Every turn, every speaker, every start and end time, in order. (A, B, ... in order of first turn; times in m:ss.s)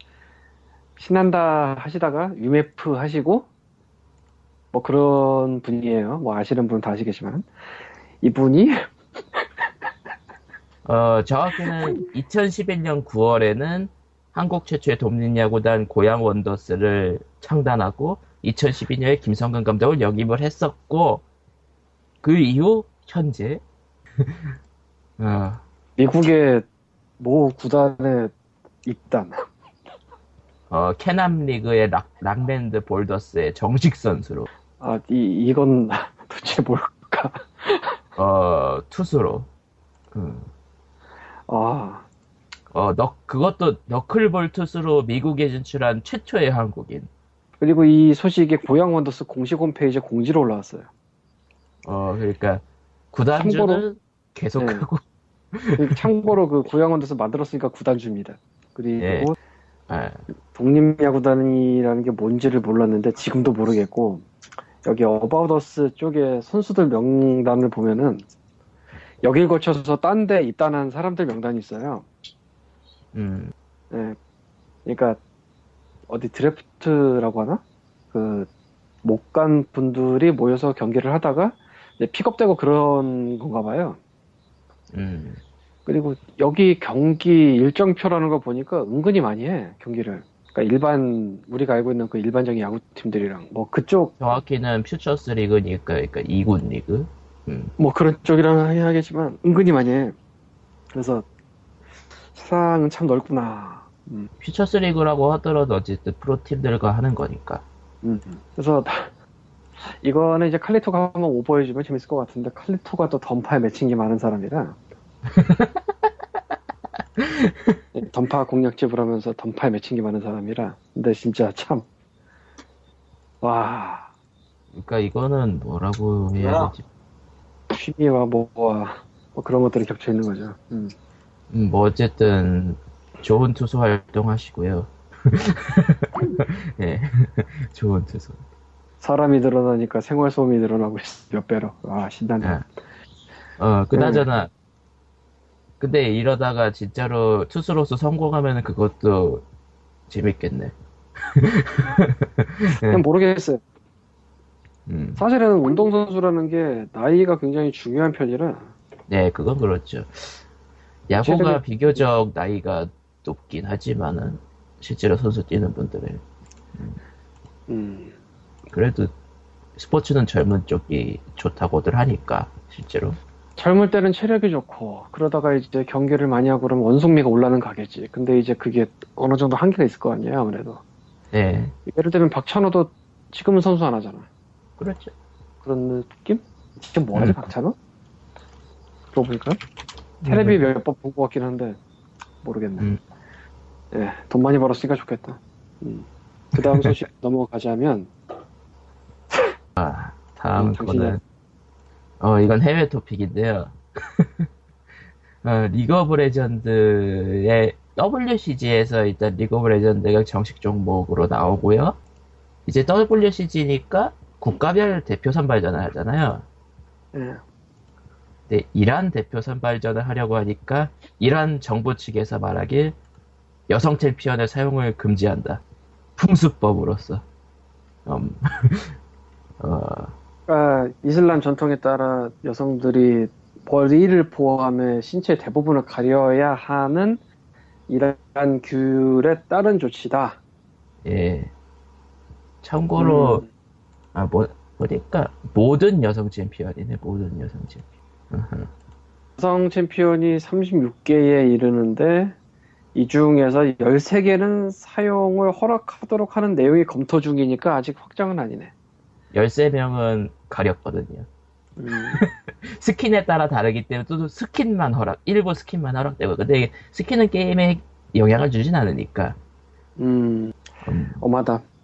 0:01.0-0:03.5 A
0:04.7-0:07.4 A
0:08.2-0:08.8 A
0:10.8-0:21.2 B
0:22.2-0:23.6 B
0:25.2-0:25.6 B
0:26.0-0:26.6 A
0:27.2-0:28.3 A
0:28.8-0:29.3 A
0:30.7-0:34.5 B
0:34.8-0:38.0 A
0:38.2-0:39.5 B
0:40.1-0:40.5 B
0:41.5-0:42.0 A
0:42.7-0:47.1 B
0:47.6-0:50.9 A
0:51.8-0:55.0 B
0:53.4-0:53.8 A
0:54.6-0:54.8 A
0:55.5-0:56.1 B
0:55.8-0:59.4 A
0:59.0-0:59.3 B
0:59.9-1:00.2 B
1:00.5-1:04.2 A
1:04.8-1:08.2 A
1:09.2-1:12.0 A
1:13.1-1:13.5 B
1:13.9-1:14.2 A
1:14.8-1:15.2 A
1:16.1-1:17.6 A
1:18.1-1:18.5 A
1:19.0-1:24.0 A
1:24.9-1:25.4 B
1:25.8-1:34.2 A
1:34.2-1:37.7 B
1:37.8-1:40.1 A
1:40.9-1:41.2 A
1:42.3-1:44.3 A
1:44.4-1:47.6 B
1:48.0-1:49.1 A
1:50.0-1:54.8 A
1:55.3-1:55.8 B
1:57.2-1:57.7 B
1:57.9-2:01.8 A
2:03.4-2:04.1 A
2:04.7-2:06.8 B
2:06.4-2:06.7 A
2:07.7-2:10.9 A
2:11.5-2:18.4 B
2:19.0-2:22.5 A
2:23.6-2:24.5 B
2:23.9-2:24.2 A
2:25.8-2:29.4 B
2:30.1-2:30.7 B
2:31.3-2:33.0 B
2:32.8-2:33.6 A
2:34.9-2:35.2 B
2:35.2-2:38.7 A
2:39.1-2:40.4 B
2:41.1-2:46.2 B
2:41.2-2:41.6 A
2:47.7-2:48.1 A
2:48.7-2:49.1 B
2:49.8-2:53.2 B
2:53.6-3:00.8 A
3:01.3-3:01.7 B
3:01.9-3:04.2 A
3:04.8-3:05.1 B
3:05.6-3:07.7 A
3:07.1-3:07.5 B
3:09.1-3:09.6 A
3:10.2-3:10.6 B
3:10.2-3:11.8 A
3:12.4-3:12.9 A
3:13.9-3:18.1 A
3:16.6-3:16.9 B
3:19.8-3:21.2 B
3:20.6-3:21.2 A
3:22.2-3:24.5 B
3:25.4-3:32.0 B
3:32.6-3:36.4 B
3:37.1-3:37.4 A
3:38.5-3:42.9 B
3:43.7-3:45.6 B
3:46.2-3:47.2 B
3:48.0-3:48.9 B
3:49.6-3:50.1 B
3:50.5-3:57.2 A
3:57.9-4:00.4 A
4:01.0-4:01.5 B
4:02.6-4:03.4 B
4:03.0-4:03.5 A
4:04.1-4:08.7 B
4:09.4-4:12.3 A
4:12.9-4:18.7 A
4:19.3-4:21.3 B
4:21.8-4:22.2 A
4:21.9-4:29.4 B
4:30.0-4:30.6 A
4:30.8-4:31.2 B
4:31.2-4:31.6 A